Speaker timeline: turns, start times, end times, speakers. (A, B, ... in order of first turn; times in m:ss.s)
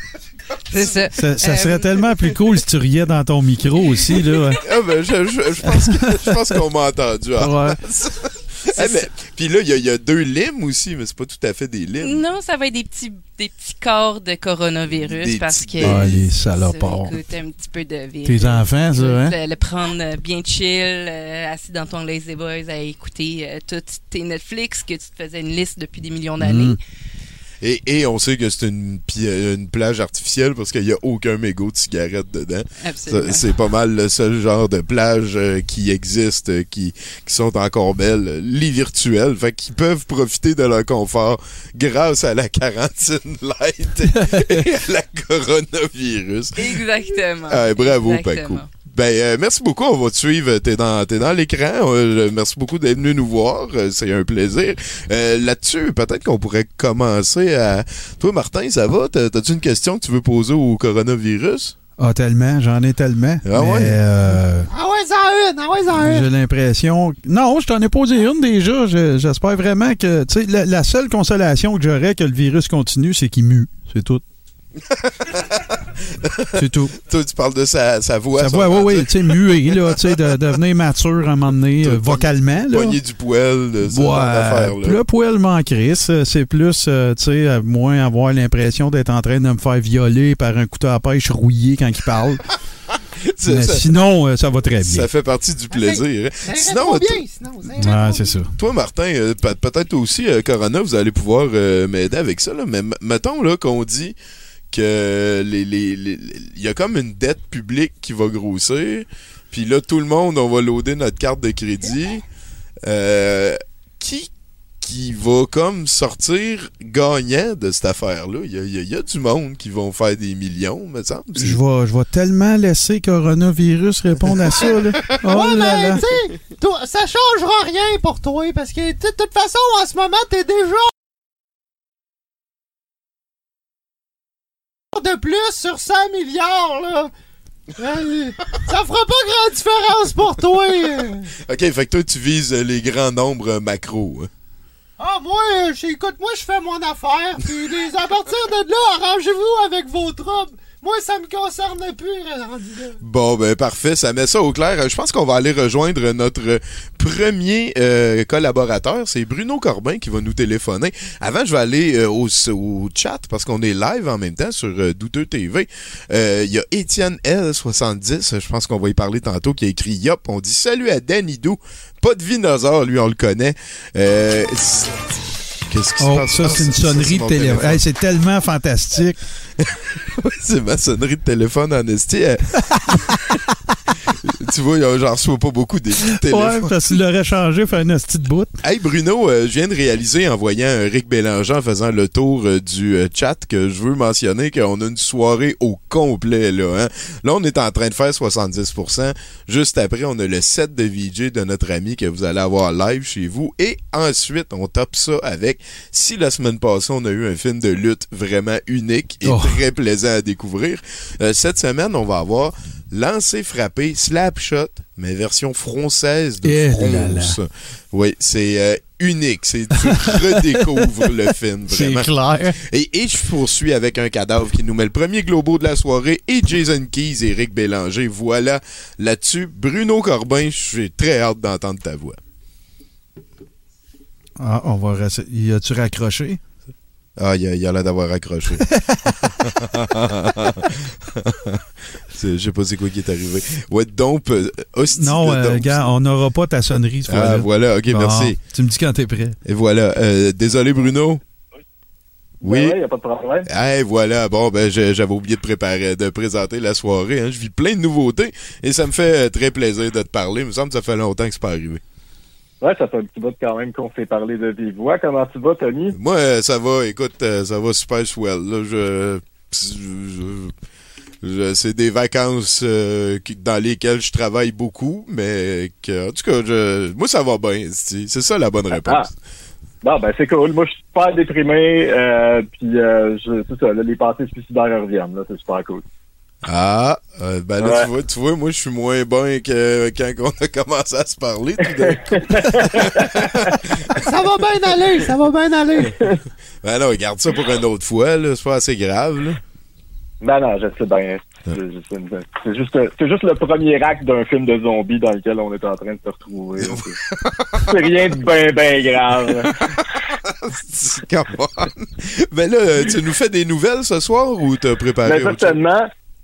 0:00.7-0:02.4 A
0:01.1-0:04.6 B
0:04.6-0:12.2 C
0:05.9-0:06.2 B
0:07.4-0:07.8 B
0:08.8-0:09.0 A
0:12.0-0:26.8 A
0:14.9-0:16.2 C
0:15.8-0:17.2 B
0:18.2-0:19.4 B
0:26.4-0:26.8 B
0:27.6-0:46.8 C
0:32.8-0:33.5 A
0:46.6-0:48.7 A
0:47.5-1:01.8 C
1:02.0-1:04.7 B
1:03.4-1:04.0 C
1:04.7-1:06.3 D
1:06.0-1:14.2 B
1:14.9-1:16.5 C
1:16.5-1:17.0 B
1:17.0-1:20.3 C
1:18.4-1:23.0 B
1:21.8-1:25.0 C
1:23.8-1:32.4 B
1:33.3-1:33.9 C
1:33.4-1:35.1 B
1:34.8-1:37.2 C
1:35.7-1:38.3 D
1:37.8-1:38.5 B
1:38.6-1:44.2 C
1:44.7-1:52.2 C
1:52.8-2:01.6 C
2:01.4-2:06.0 B
2:05.2-2:10.9 D
2:14.9-2:17.1 D
2:17.8-2:21.3 D
2:21.5-2:24.3 C
2:25.0-2:33.0 D
2:33.0-2:57.8 C
2:56.0-2:59.2 B
2:59.6-3:03.4 C
3:04.1-3:07.0 C
3:06.1-3:08.6 B
3:08.6-3:52.2 C
3:29.2-3:29.6 B
3:36.4-3:37.4 B
3:39.9-3:40.6 B
3:41.7-3:42.6 B
3:54.4-3:56.4 B
3:57.2-3:58.7 C
3:58.7-3:59.1 B
3:59.2-4:05.9 C
4:05.0-4:09.4 B
4:07.1-4:08.4 C
4:09.4-4:11.2 C
4:12.4-4:13.5 E
4:12.4-4:12.8 C
4:13.5-4:21.8 C
4:22.6-4:26.0 E
4:25.9-4:30.5 C
4:31.2-4:39.2 C
4:38.7-4:39.1 E
4:39.8-4:45.8 E
4:46.4-4:54.0 C
4:47.6-4:47.9 E
4:52.1-4:53.3 E
4:54.0-4:56.0 D
4:56.6-4:59.4 C
5:00.2-5:07.0 E
5:06.6-5:07.8 C
5:07.6-5:09.6 E
5:09.5-5:15.6 C
5:15.0-5:15.9 E